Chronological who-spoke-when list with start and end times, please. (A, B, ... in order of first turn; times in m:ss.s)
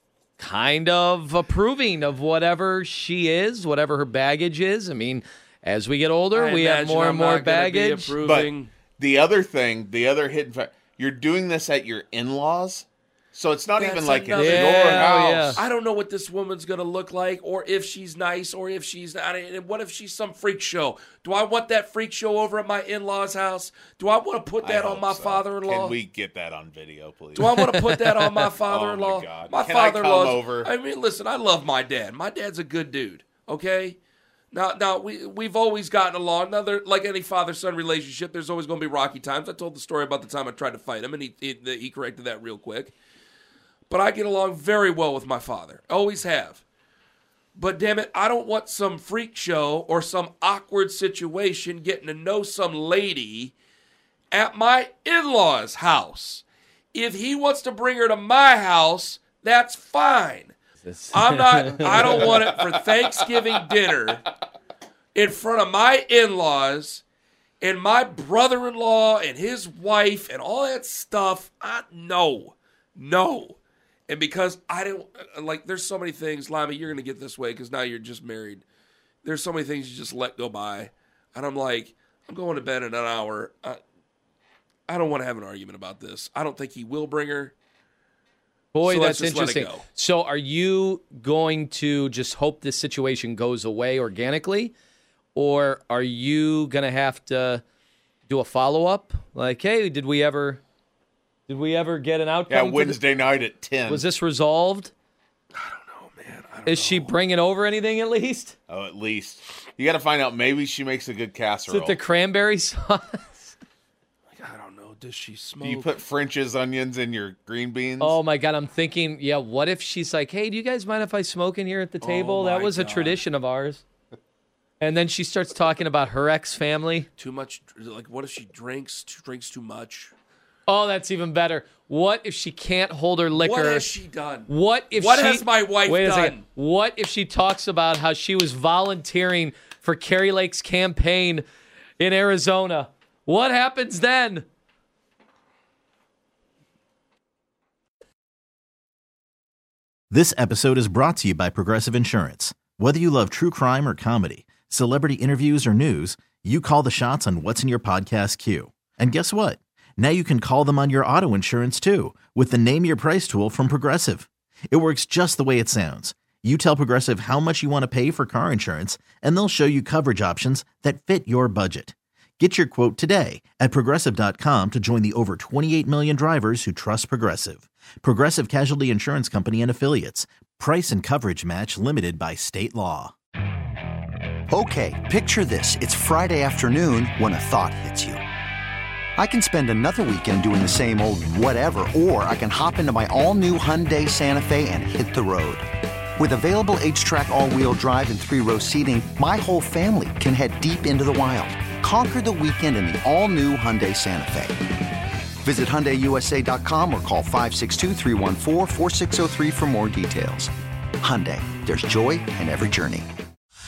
0:00.4-0:08.1 A
0:06.3-0:08.7 B
0:08.2-0:15.6 C
0:13.8-0:26.0 B
0:14.4-0:15.6 A
0:24.6-0:27.7 C
0:27.4-0:34.0 B
0:27.4-0:28.5 A
0:28.7-0:30.7 C
0:34.5-0:42.9 B
0:43.9-0:46.6 B
0:47.6-0:53.5 B
0:54.3-1:00.6 B
1:00.9-1:02.4 A
1:01.1-1:04.3 B
1:05.2-1:07.0 B
1:07.6-1:13.6 B
1:14.1-1:18.6 B
1:19.2-1:23.8 B
1:24.9-1:27.5 B
1:28.7-1:34.7 A
1:28.8-1:29.8 B
1:35.4-1:37.6 A
1:38.3-1:40.6 A
1:41.5-1:43.0 A
1:42.5-1:44.0 C
1:43.9-1:44.9 A
1:45.5-1:47.1 B
1:46.7-1:48.6 A
1:48.7-1:52.0 C
1:51.7-1:53.6 A
1:54.3-1:56.0 B
1:55.6-1:58.2 C
1:58.0-2:03.8 A
2:02.0-2:03.2 B
2:04.8-2:07.1 A
2:07.2-2:10.1 B
2:10.7-2:13.9 A
2:13.3-2:16.4 B
2:14.5-2:21.4 A
2:22.0-2:24.5 A
2:30.1-3:03.1 D
3:04.5-3:08.2 E
3:09.2-3:15.7 E
3:16.2-3:24.6 E
3:25.4-3:33.1 E